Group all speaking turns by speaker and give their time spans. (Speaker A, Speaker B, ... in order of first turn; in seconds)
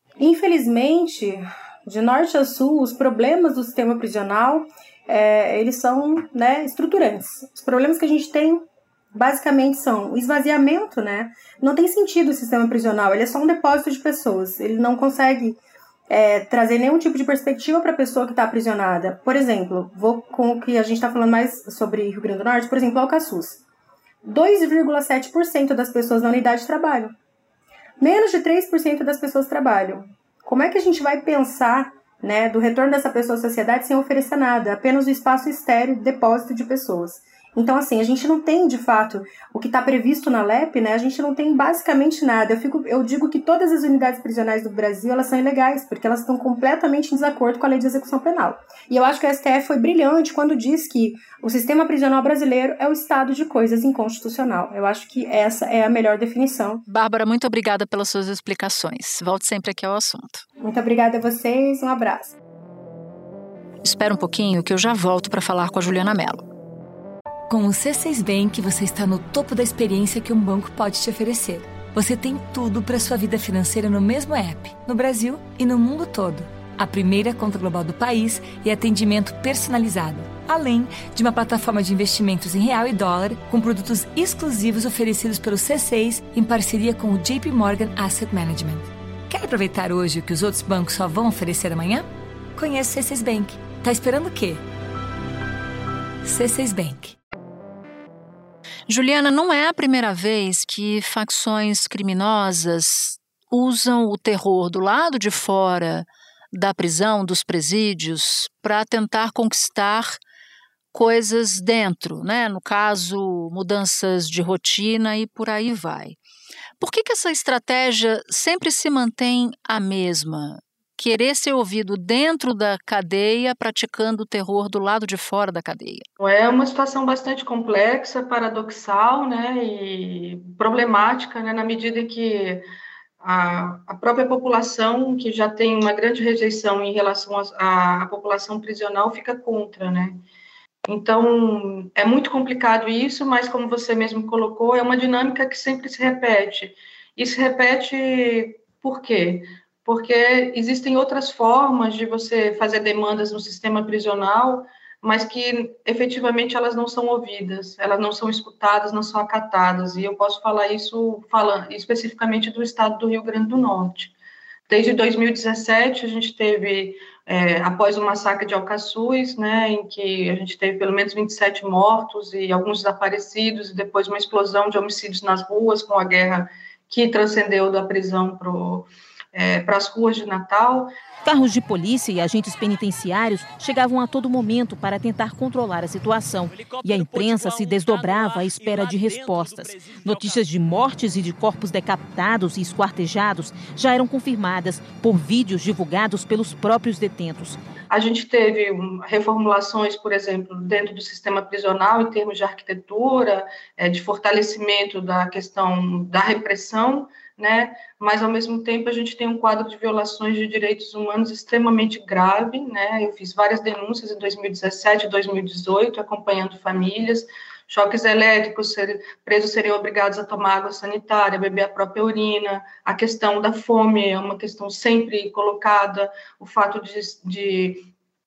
Speaker A: 0.2-15.6, 16.1-23.6, 24.2-27.1, 28.0-56.9, 60.6-62.4
Speaker B: 56.9-60.5, 63.8-66.5, 98.9-110.2, 110.9-116.2, 116.8-126.0
Speaker C: 67.5-94.6, 96.2-97.2
Speaker D: 126.2-132.6, 133.2-140.2, 140.9-164.1, 164.7-180.9, 197.9-227.9
Speaker E: 181.2-197.6